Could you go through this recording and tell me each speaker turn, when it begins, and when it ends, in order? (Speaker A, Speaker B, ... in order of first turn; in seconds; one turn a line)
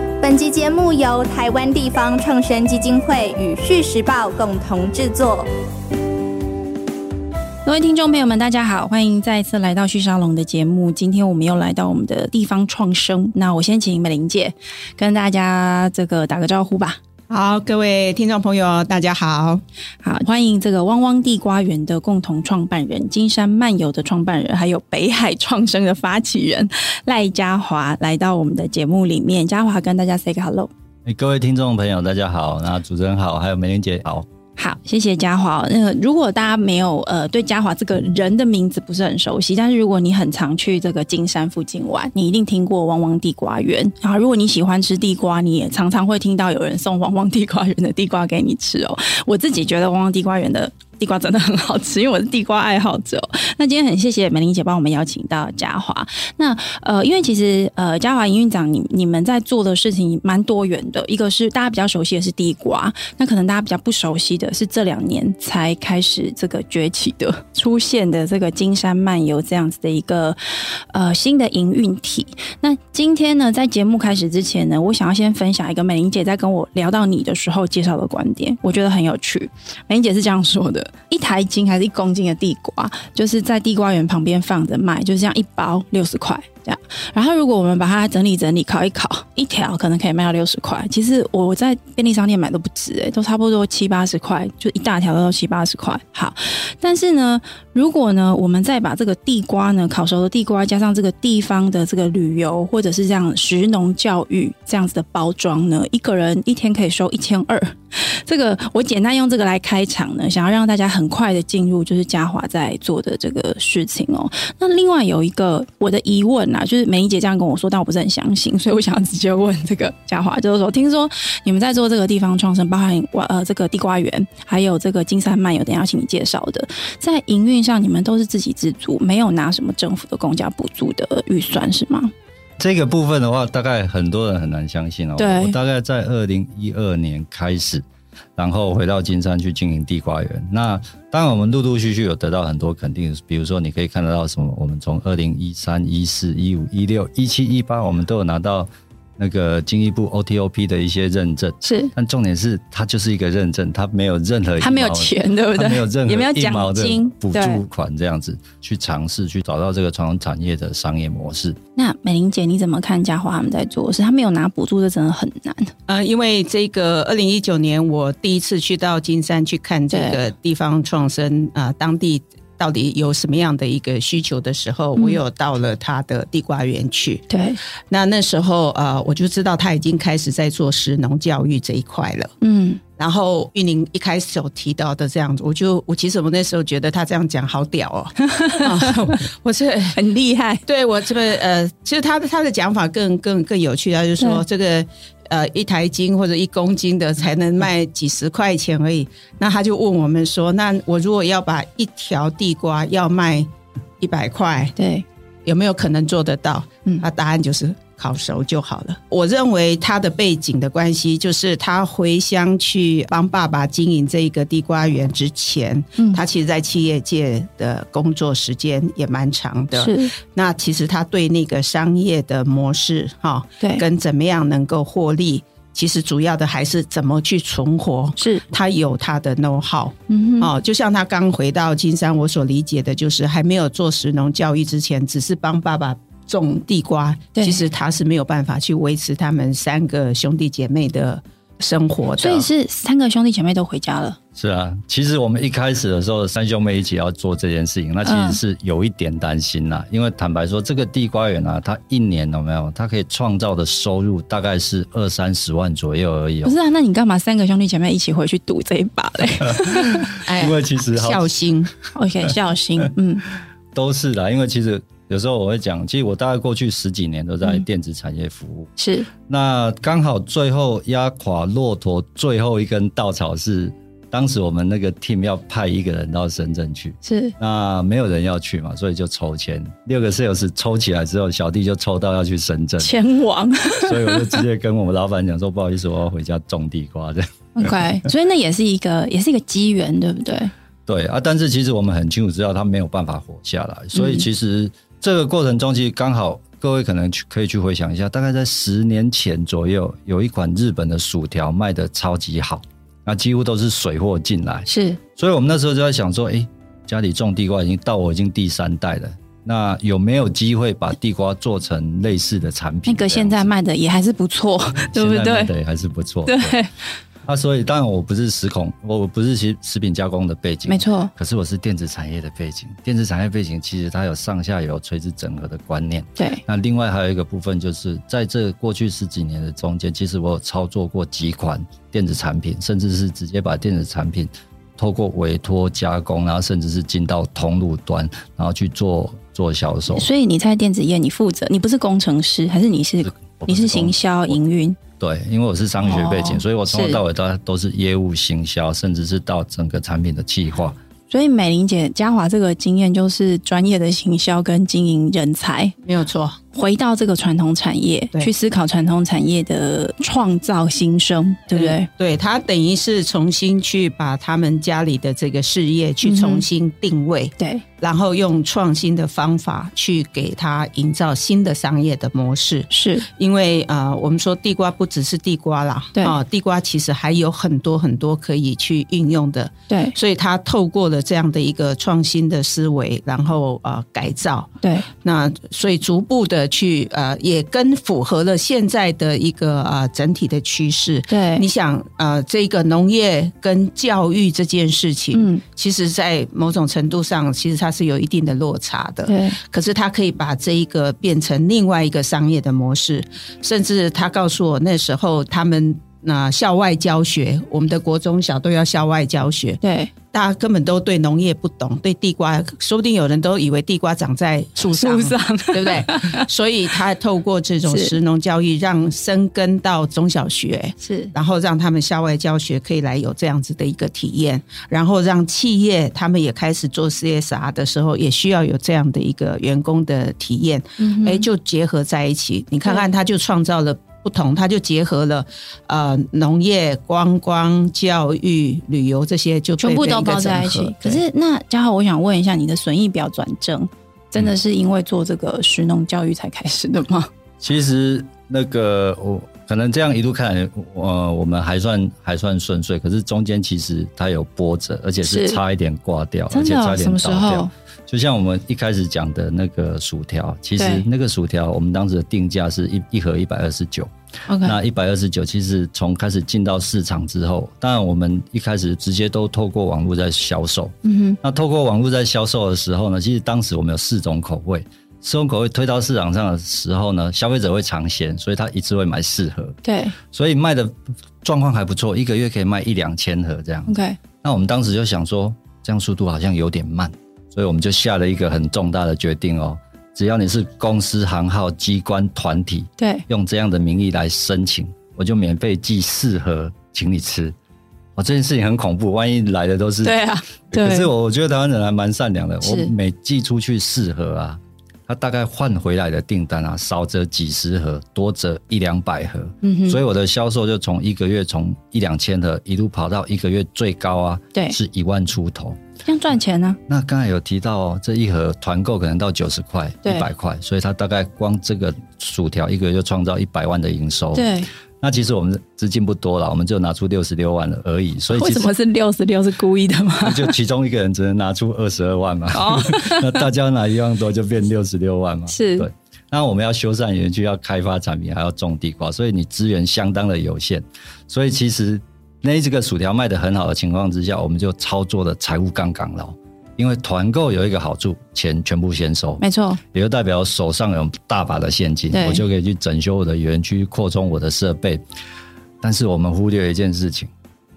Speaker A: 0.2-5.5
Speaker B: 7.7-17.0
Speaker C: 17.3-19.6
Speaker B: 20.0-30.7
Speaker D: 31.1-34.3
Speaker B: 34.6-132.1
Speaker D: 132.6-137.8
Speaker B: 135.2-135.6
Speaker D: 138.4-161.6
Speaker B: 151.6-151.9
Speaker B: 154.6-157.6
Speaker B: 161.8-165.7
Speaker C: 165.9-177.2
Speaker B: 169.9-170.2
Speaker B: 177.3-177.6
Speaker C: 177.9-182.3
Speaker B: 182.4-182.8
Speaker C: 183.0-190.0
Speaker B: 188.3-188.9
Speaker B: 189.9-190.6
Speaker C: 190.7-204.8
Speaker B: 204.8-205.0
Speaker C: 205.4-242.5
Speaker B: 216.0-216.2
Speaker B: 219.8-220.1
Speaker B: 228.2-228.4
Speaker B: 230.1-230.5
Speaker B: 237.3-237.6
Speaker B: 242.2-244.2
Speaker D: 244.3-256.6
Speaker B: 248.0-248.4
Speaker B: 256.4-260.2
Speaker D: 259.8-261.3
Speaker C: 260.2-261.7
Speaker B: 261.9-263.2
Speaker D: 263.7-268.7
Speaker B: 268.8-269.1
Speaker D: 269.3-282.9
Speaker B: 277.0-277.4
Speaker B: 282.8-284.4
Speaker D: 283.9-287.8
Speaker B: 287.6-290.5
Speaker D: 290.9-313.5
Speaker B: 293.9-294.2
Speaker B: 304.7-305.0
Speaker B: 312.9-315.5
Speaker D: 314.9-316.6
Speaker B: 316.2-316.7
Speaker D: 317.2-340.1
Speaker B: 320.7-321.1
Speaker B: 326.2-326.4
Speaker B: 339.9-344.8
Speaker D: 343.0-344.4
Speaker D: 345.0-350.8
Speaker B: 345.8-347.0
Speaker B: 351.1-355.8
Speaker C: 355.8-356.4
Speaker B: 356.5-361.9
Speaker C: 361.5-409.6
Speaker B: 366.0-366.4
Speaker B: 372.7-373.1
Speaker B: 379.7-380.0
Speaker B: 384.6-384.9
Speaker B: 391.1-391.4
Speaker B: 395.1-395.4
Speaker B: 399.1-399.4
Speaker B: 409.6-409.9
Speaker C: 410.1-441.0
Speaker B: 414.8-416.3
Speaker B: 417.7-418.0
Speaker B: 420.8-421.1
Speaker B: 430.8-431.2
Speaker B: 439.6-447.1
Speaker D: 447.4-463.9
Speaker B: 455.0-455.4
Speaker B: 456.3-457.5
Speaker B: 460.6-460.9
Speaker B: 464.3-464.6
Speaker D: 464.4-479.6
Speaker B: 470.8-471.2
Speaker B: 479.6-480.0
Speaker D: 480.1-497.4
Speaker B: 483.7-484.0
Speaker B: 492.8-493.1
Speaker D: 498.0-500.0
Speaker B: 499.8-500.9
Speaker D: 500.5-515.6
Speaker B: 502.4-502.7
Speaker B: 509.4-509.8
Speaker B: 515.9-516.6
Speaker D: 516.7-524.3
Speaker B: 524.1-524.5
Speaker D: 524.8-528.5
Speaker B: 528.1-530.3
Speaker D: 530.0-554.8
Speaker B: 532.3-533.2
Speaker B: 535.3-535.7
Speaker B: 549.2-549.6
Speaker B: 551.9-552.2
Speaker D: 555.6-557.1